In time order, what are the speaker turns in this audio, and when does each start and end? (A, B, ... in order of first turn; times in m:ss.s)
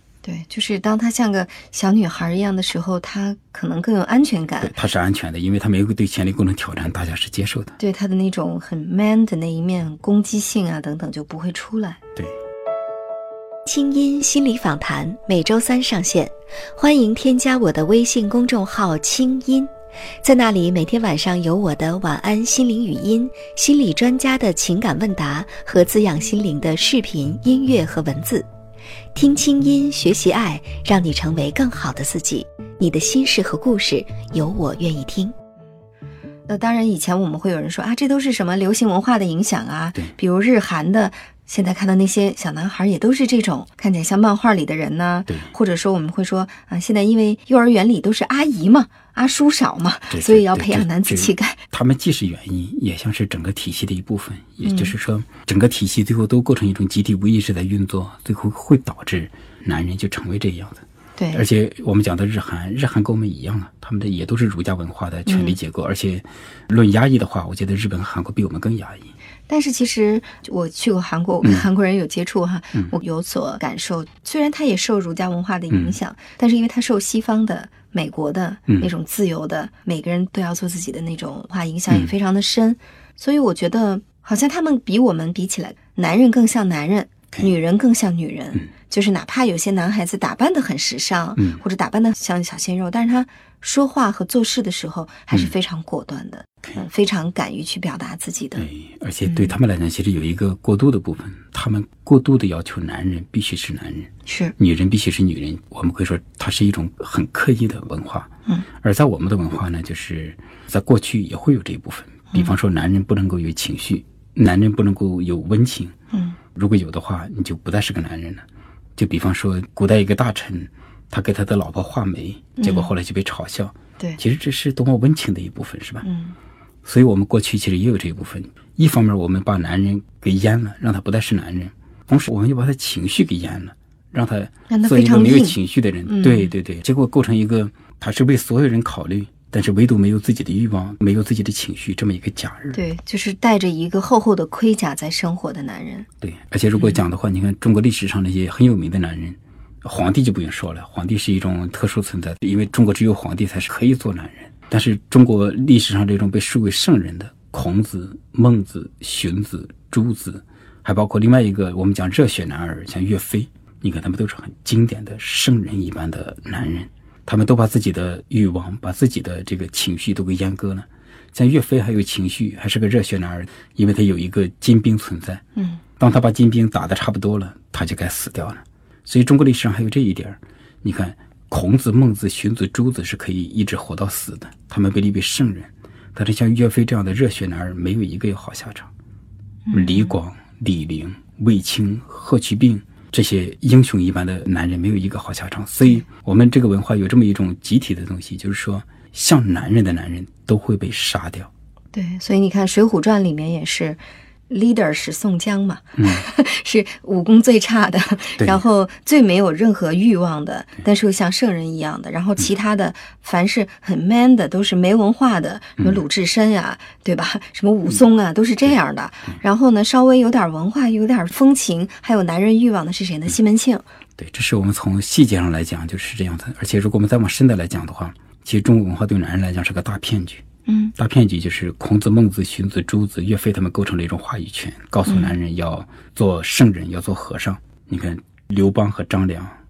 0:00.2-0:04.7 A
0:04.6-0:07.7 B
0:07.8-0:12.0 A
0:13.6-0:19.7 C
0:20.2-0:28.4 C
0:29.1-0:35.3 C
0:36.5-0:51.6 A
0:50.1-1:09.1 B
0:54.6-0:55.0 A
1:01.2-1:01.4 A
1:05.2-1:05.6 A
1:09.5-1:38.7 A
1:11.4-1:11.7 B
1:15.7-1:16.0 B
1:21.9-1:22.1 B
1:31.4-1:31.6 B
1:38.6-1:48.3 B
1:39.2-1:39.5 A
1:44.2-1:44.6 A
1:48.8-1:55.9 B
1:56.1-1:56.4 A
1:56.5-1:58.4 B
1:59.0-2:06.0 B
2:02.6-2:02.9 A
2:06.0-2:06.4 A
2:06.8-2:22.8 B
2:14.7-2:16.5 A
2:22.7-2:26.1 A
2:26.2-2:55.4 B
2:55.6-2:55.8 A
2:56.0-3:08.9 B
3:09.7-3:10.2 A
3:09.7-3:21.5 B
3:21.9-3:43.8 A
3:26.0-3:26.2 B
3:28.4-3:28.6 B
3:44.2-3:50.4 B
3:50.7-3:50.9 A
3:51.0-3:59.5 B
3:55.0-3:55.4 A